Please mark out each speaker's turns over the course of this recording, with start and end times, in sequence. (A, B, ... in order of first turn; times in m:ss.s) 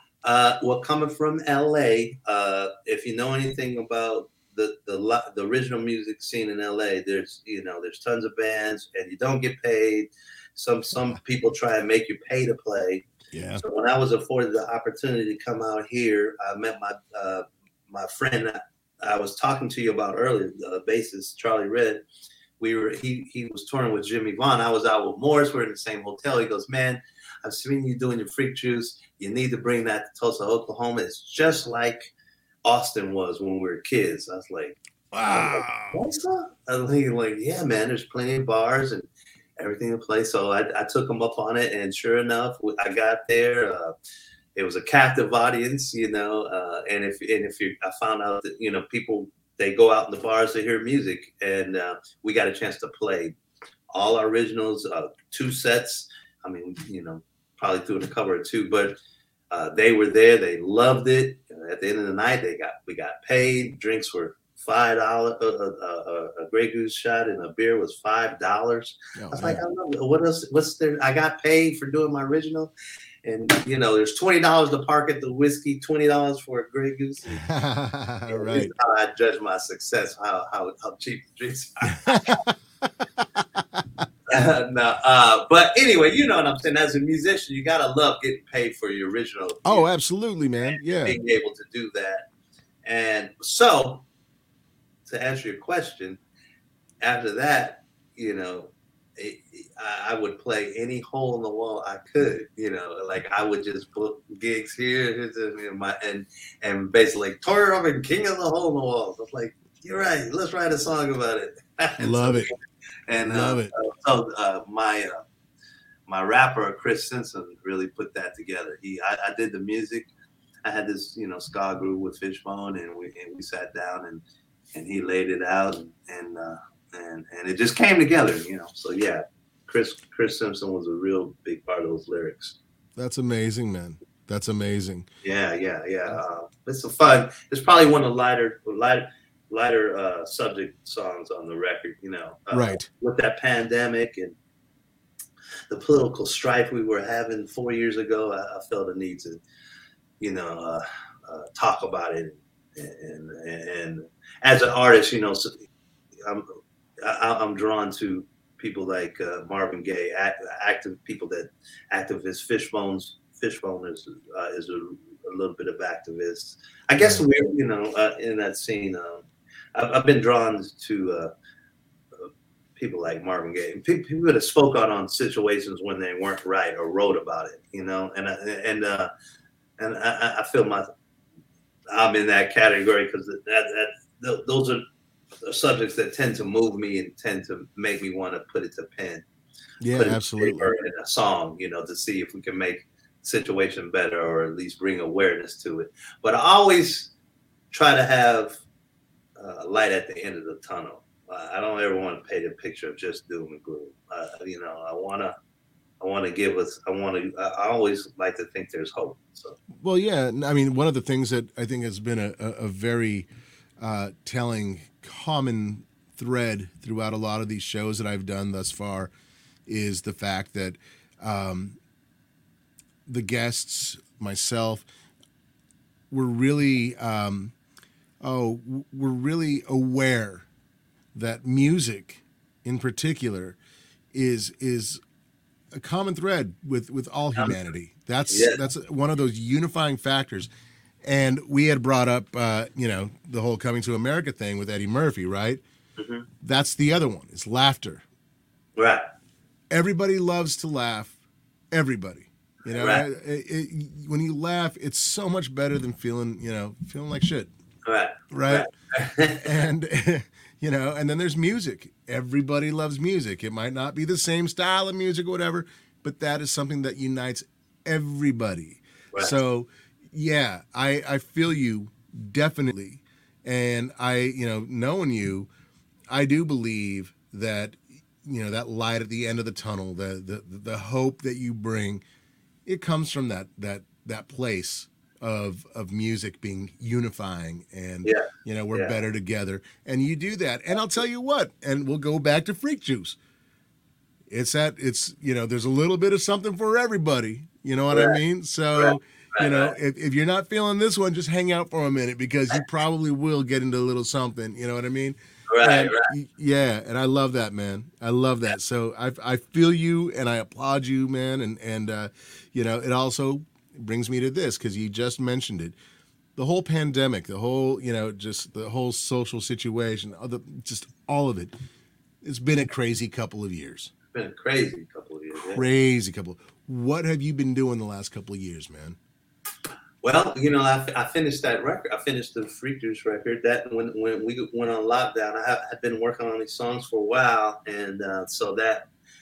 0:00.2-0:13.1 A
0:13.3-0:13.6 B
0:13.6-0:22.0 A
0:22.6-0:32.1 A
0:32.6-0:39.1 A
0:35.1-0:36.0 B
0:39.6-0:43.9 A
0:44.6-0:53.4 A
0:53.9-0:59.0 A
0:59.5-1:12.7 A
1:09.2-1:09.6 B
1:13.2-1:17.4 A
1:17.3-1:18.7 B
1:18.3-1:22.4 A
1:22.0-1:24.0 B
1:24.3-1:29.8 A
1:29.6-1:31.2 B
1:30.7-1:32.2 A
1:32.8-1:34.0 A
1:35.0-1:36.2 A
1:37.0-1:52.6 A
1:52.0-1:52.5 B
1:53.1-1:55.2 A
1:53.2-1:53.7 B
1:56.1-2:00.1 A
2:00.6-2:04.2 A
2:04.7-2:12.6 A
2:13.0-2:15.1 B
2:15.2-2:24.3 A
2:22.5-2:22.9 B
2:25.7-2:29.4 A
2:30.2-2:35.6 A
2:36.2-2:36.5 A
2:37.0-2:51.3 A
2:52.2-2:59.1 A
2:59.8-3:00.8 A
3:01.9-3:04.8 A
3:05.4-3:09.2 A
3:09.8-3:10.7 B
3:09.9-3:17.1 A
3:17.7-3:18.6 A
3:19.4-3:25.3 A
3:26.0-3:29.6 A
3:29.8-3:33.3 B
3:33.8-3:39.1 B
3:39.6-3:41.8 B
3:43.0-3:44.8 B
3:46.1-3:47.5 B
3:48.2-3:50.5 B
3:51.1-3:53.6 B
3:54.1-3:55.0 B
3:55.7-4:00.5 B
3:58.3-3:58.6 A
4:01.0-4:05.6 B
4:06.0-4:06.2 A
4:06.4-4:08.0 B
4:08.8-4:09.0 A
4:09.7-4:11.2 B
4:11.7-4:17.5 B
4:12.7-4:13.0 A
4:17.8-4:19.6 A
4:18.3-4:18.7 B
4:19.4-4:35.5 B
4:36.1-4:42.0 B
4:42.6-4:53.2 B
4:48.0-4:49.0 A
4:54.3-5:15.8 B
4:57.9-4:58.2 A
4:58.7-4:59.8 A
5:05.5-5:06.1 A
5:16.4-5:21.5 B
5:22.2-5:23.9 B
5:24.1-5:25.6 A
5:25.4-5:29.0 B
5:30.0-5:38.9 A